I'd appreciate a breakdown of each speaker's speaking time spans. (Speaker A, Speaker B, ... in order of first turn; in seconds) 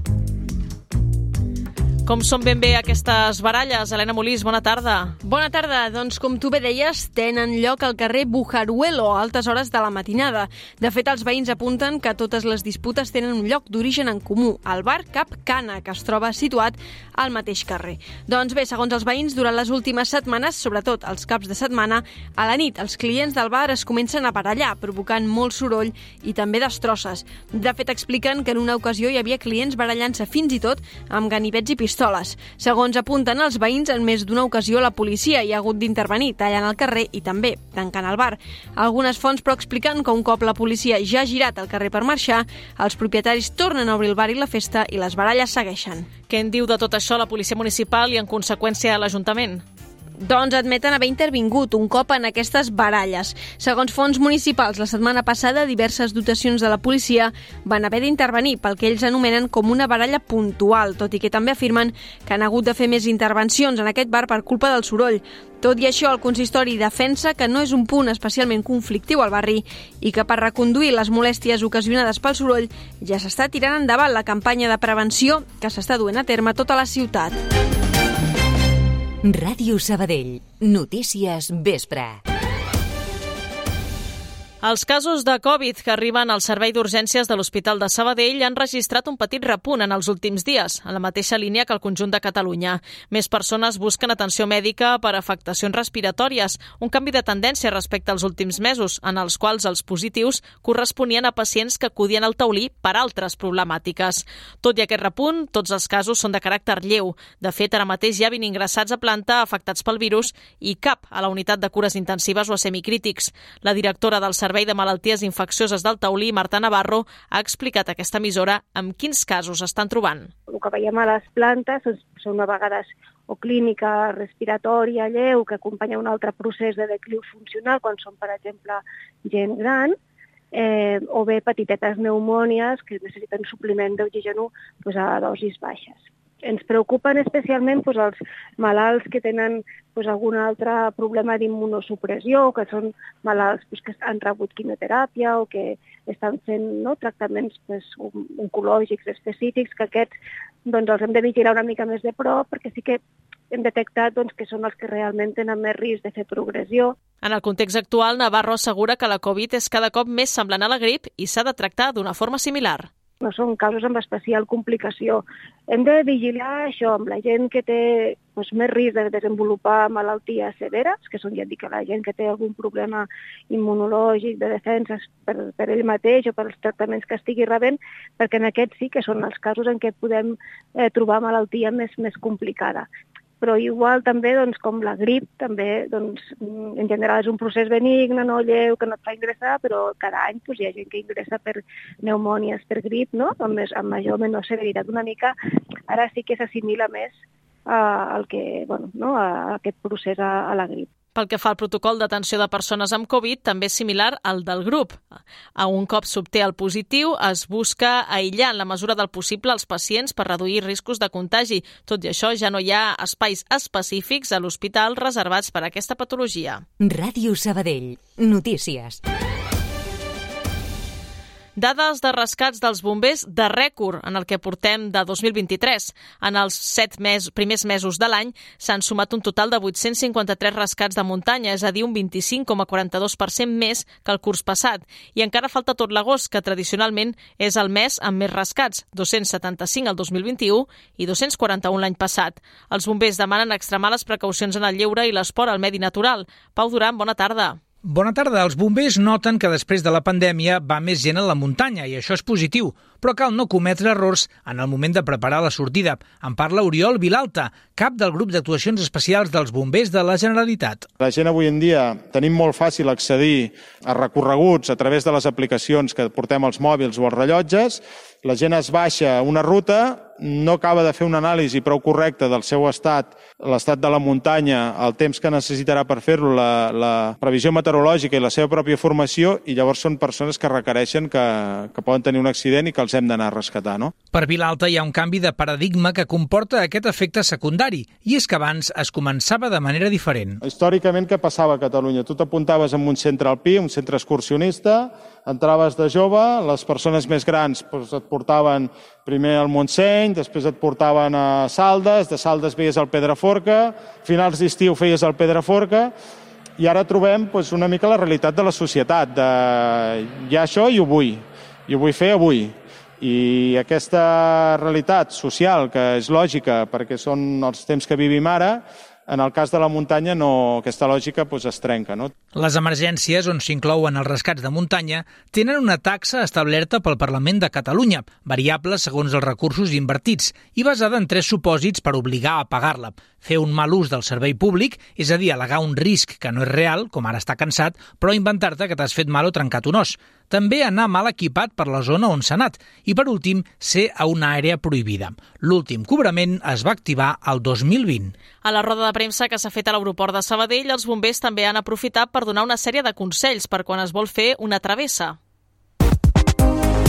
Speaker A: 2.1-5.2, 46.3-49.6, 84.6-120.3, 157.2-162.9, 201.2-205.0, 205.6-216.6, 221.6-247.6, 348.4-355.2
Speaker B: 5.2-46.1, 50.2-77.4
Speaker C: 79.2-82.2, 216.8-219.0
Speaker D: 120.5-130.0, 130.5-150.1, 150.7-156.9, 163.2-182.9, 183.4-195.3, 195.9-197.2, 197.7-200.9
Speaker E: 247.8-260.9, 284.1-290.4, 322.3-348.1
Speaker F: 261.0-283.9, 290.4-305.9, 306.6-322.1